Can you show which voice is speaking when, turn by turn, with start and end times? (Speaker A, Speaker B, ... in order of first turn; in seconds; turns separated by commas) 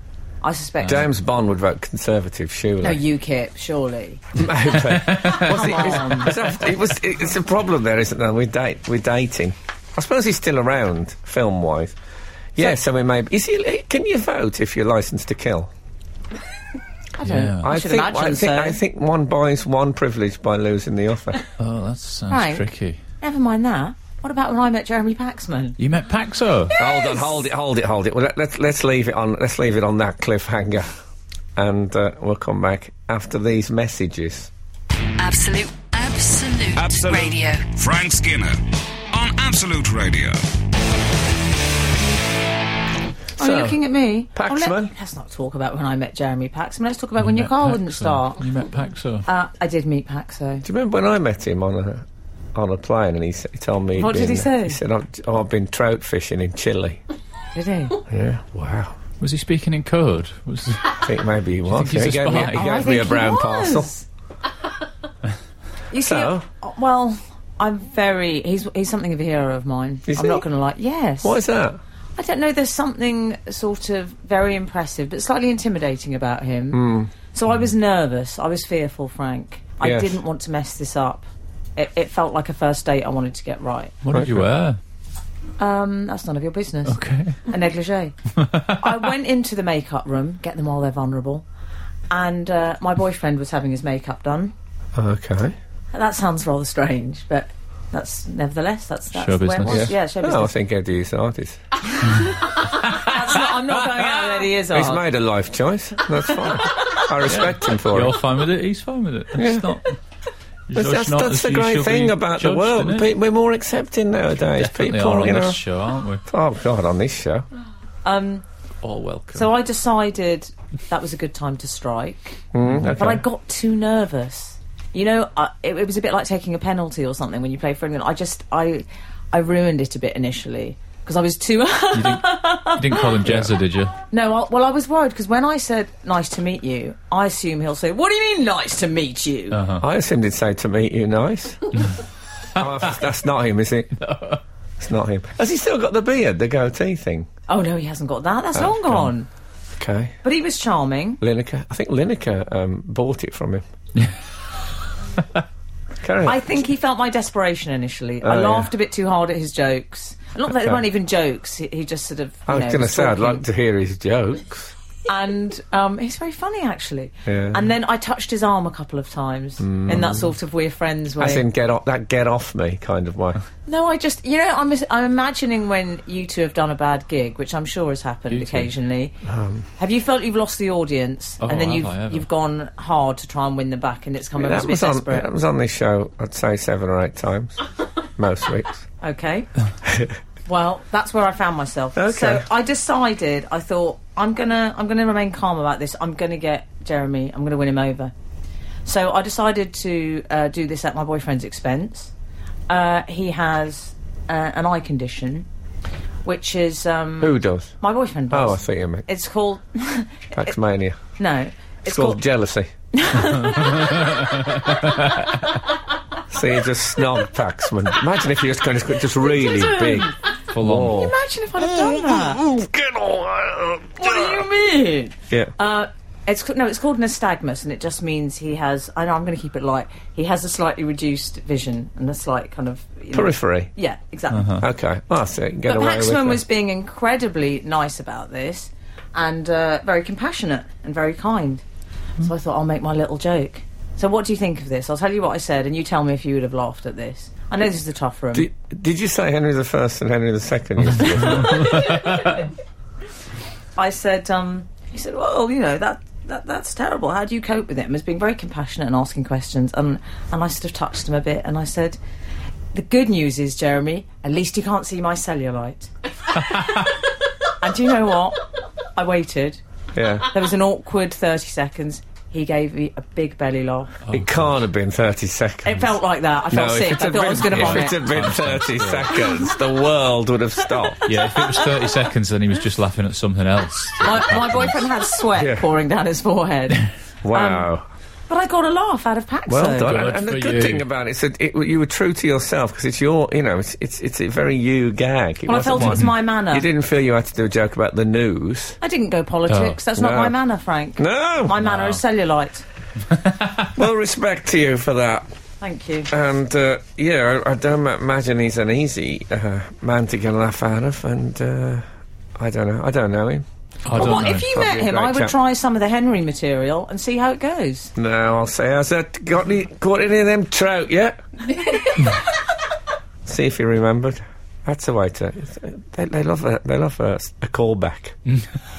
Speaker A: 0.4-1.1, Speaker B: 0.8-3.0, Speaker A: 2.8-4.2, Speaker B: 4.3-11.9, Speaker C: 4.8-6.4, Speaker A: 5.2-6.3, Speaker B: 12.5-15.7, Speaker A: 17.2-18.8, Speaker C: 17.2-17.7, Speaker B: 17.6-21.4, Speaker C: 21.6-23.0, Speaker A: 22.3-22.7, Speaker A: 23.2-25.8, Speaker C: 25.8-26.7, Speaker A: 26.7-27.4, Speaker B: 26.8-30.9, Speaker B: 31.6-34.5, Speaker D: 35.2-37.7, Speaker E: 36.7-38.6, Speaker E: 39.1-40.4, Speaker B: 43.4-43.8, Speaker A: 43.4-48.4, Speaker B: 44.3-44.9, Speaker C: 47.2-49.2, Speaker A: 49.2-50.6, Speaker B: 50.6-57.0, Speaker A: 54.0-54.8, Speaker A: 57.5-58.0, Speaker B: 58.1-58.9, Speaker C: 59.2-61.0, Speaker B: 60.9-63.9, Speaker C: 61.6-62.9, Speaker A: 62.3-64.0, Speaker A: 65.9-71.4, Speaker B: 66.0-66.4, Speaker B: 70.1-70.4, Speaker B: 71.2-71.8, Speaker A: 72.2-83.9, Speaker B: 76.7-77.1, Speaker B: 79.8-80.2, Speaker C: 84.0-84.8, Speaker B: 84.1-84.4, Speaker A: 85.6-88.1, Speaker C: 86.9-87.4, Speaker C: 88.4-89.0, Speaker A: 88.8-91.4, Speaker A: 92.1-94.5, Speaker B: 94.9-95.5, Speaker A: 95.9-100.5, Speaker C: 99.1-99.9, Speaker B: 99.6-101.6, Speaker A: 101.9-105.0, Speaker C: 102.7-104.3, Speaker B: 104.7-108.2, Speaker C: 107.2-110.0, Speaker B: 109.3-109.8, Speaker C: 110.7-113.1, Speaker B: 110.7-115.6, Speaker C: 114.5-116.2, Speaker B: 116.2-117.5, Speaker A: 118.0-118.4, Speaker C: 118.8-119.5, Speaker A: 119.3-122.4, Speaker B: 122.5-123.2, Speaker C: 122.6-123.1, Speaker A: 122.9-133.4, Speaker C: 131.9-133.9, Speaker A: 134.1-139.6, Speaker C: 139.5-139.8, Speaker B: 139.8-141.7, Speaker B: 142.6-144.0, Speaker C: 144.0-144.4, Speaker B: 144.8-147.3, Speaker A: 147.5-149.3, Speaker B: 148.6-149.1, Speaker B: 149.8-150.1, Speaker A: 150.2-151.2, Speaker B: 151.2-153.6, Speaker B: 156.0-156.6, Speaker A: 156.2-163.4, Speaker B: 158.2-158.7, Speaker B: 162.5-164.7, Speaker A: 165.1-171.4, Speaker B: 167.2-167.7, Speaker B: 169.6-170.3, Speaker B: 171.2-173.4, Speaker A: 173.7-179.2, Speaker C: 178.3-178.7, Speaker B: 179.2-179.7, Speaker A: 179.8-185.3, Speaker C: 181.4-182.3, Speaker B: 184.4-187.6, Speaker B: 188.2-188.8, Speaker A: 189.0-189.5, Speaker A: 190.5-198.1, Speaker B: 191.9-192.4, Speaker A: 198.8-202.1, Speaker A: 202.7-205.5, Speaker A: 206.2-210.5, Speaker B: 207.2-207.7, Speaker B: 208.3-209.1, Speaker B: 210.3-211.0, Speaker A: 211.2-212.2, Speaker B: 211.8-212.7, Speaker A: 212.9-214.9, Speaker C: 213.4-215.2, Speaker B: 216.3-224.4, Speaker A: 219.4-220.1, Speaker C: 220.5-221.0, Speaker A: 220.8-222.4, Speaker A: 224.0-234.6, Speaker B: 233.1-233.7, Speaker C: 234.3-234.6, Speaker B: 234.6-236.4, Speaker A: 235.7-241.6, Speaker A: 242.2-248.5, Speaker B: 248.3-251.9, Speaker A: 251.2-252.4, Speaker C: 251.5-252.0, Speaker A: 253.8-262.0, Speaker A: 262.7-265.9, Speaker A: 266.6-266.8, Speaker A: 267.6-268.4, Speaker A: 268.9-269.6, Speaker B: 269.9-270.3, Speaker A: 270.3-273.9, Speaker C: 274.1-274.5, Speaker B: 274.1-275.9, Speaker A: 275.6-278.0, Speaker B: 276.5-281.2, Speaker C: 277.5-279.1, Speaker C: 281.1-284.8, Speaker A: 284.0-287.7, Speaker B: 285.3-285.6, Speaker B: 287.2-287.9, Speaker A: 288.3-289.9, Speaker B: 289.5-298.8, Speaker C: 289.8-290.8, Speaker A: 295.4-296.6, Speaker C: 295.8-296.1, Speaker A: 298.8-302.6, Speaker C: 299.5-299.8, Speaker B: 299.9-300.4, Speaker B: 301.0-301.6, Speaker C: 301.6-302.0, Speaker C: 303.2-303.7, Speaker B: 303.7-305.3, Speaker A: 305.6-306.1, Speaker B: 306.1-311.8, Speaker B: 312.4-315.3, Speaker C: 313.8-314.5, Speaker A: 313.9-317.9, Speaker B: 317.9-321.2, Speaker B: 323.2-328.2